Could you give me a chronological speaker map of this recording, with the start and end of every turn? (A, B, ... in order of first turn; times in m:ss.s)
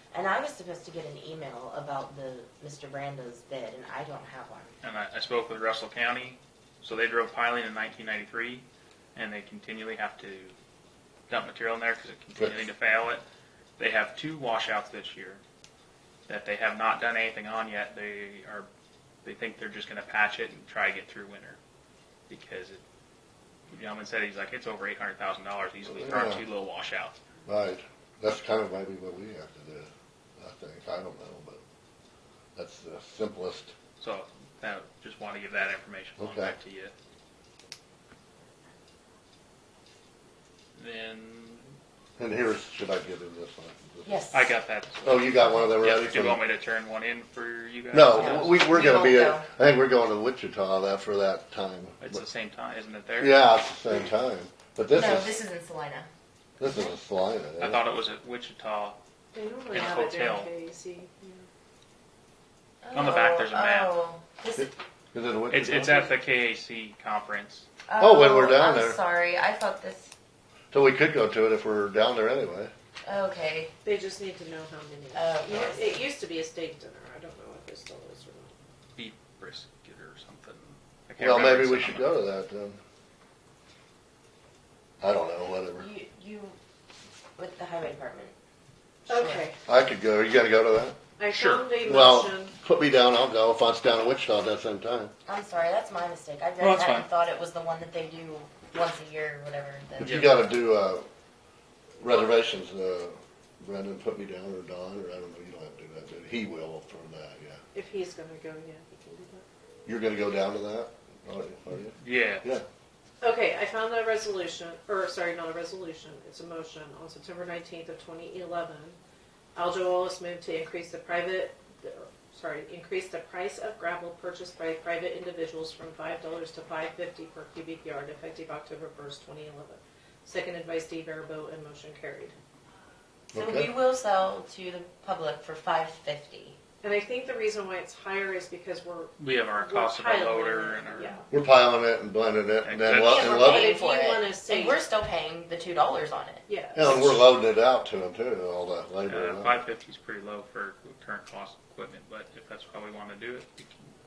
0:00.1-0:04.7 A
0:04.8-0:10.5 B
0:11.3-0:13.2 B
0:13.8-0:15.4 B
0:16.3-0:18.7 B
0:19.2-0:21.6 B
0:22.3-0:22.8 B
0:23.7-0:27.2 B
0:25.9-0:26.4 C
0:27.4-0:31.6 C
0:32.6-0:33.7 C
0:34.0-0:36.9 B
0:36.2-0:36.5 C
0:40.8-0:41.7 B
0:42.2-0:44.2 C
0:44.0-0:44.5 A
0:44.3-0:48.6 B
0:45.0-0:46.4 C
0:47.9-0:52.2 C
0:48.2-0:49.5 A
0:52.0-0:53.5 B
0:53.2-0:55.3 C
0:54.9-0:56.1 A
0:56.6-0:57.8 C
0:57.6-0:59.0 B
0:59.3-1:01.4 D
0:59.7-1:00.5 B
1:02.8-1:04.7 A
1:02.9-1:03.9 B
1:05.1-1:06.1 C
1:05.5-1:07.6 B
1:07.9-1:10.1 A
1:08.0-1:09.0 C
1:10.7-1:12.7 C
1:13.0-1:13.7 A
1:13.8-1:18.5 D
1:15.1-1:16.0 A
1:19.0-1:22.2 B
1:21.2-1:22.8 C
1:25.0-1:25.9 C
1:25.7-1:26.6 A
1:27.4-1:28.3 A
1:29.1-1:29.5 A
1:29.1-1:29.6 D
1:29.7-1:31.0 C
1:31.2-1:32.5 D
1:31.3-1:31.6 B
1:31.8-1:35.1 C
1:35.2-1:40.3 A
1:36.6-1:37.1 B
1:40.0-1:41.0 C
1:40.0-1:40.3 B
1:42.0-1:47.6 C
1:47.7-1:49.4 D
1:49.8-1:52.6 C
1:52.0-1:52.4 B
1:53.2-1:59.0 D
1:59.5-2:12.3 D
2:13.3-2:13.7 C
2:13.3-2:16.6 A
2:16.8-2:21.2 D
2:19.2-2:21.2 B
2:21.3-2:23.6 C
2:22.6-2:23.3 B
2:23.0-2:26.5 A
2:23.1-2:24.8 D
2:26.5-2:27.2 D
2:26.8-2:29.6 C
2:29.0-2:33.7 B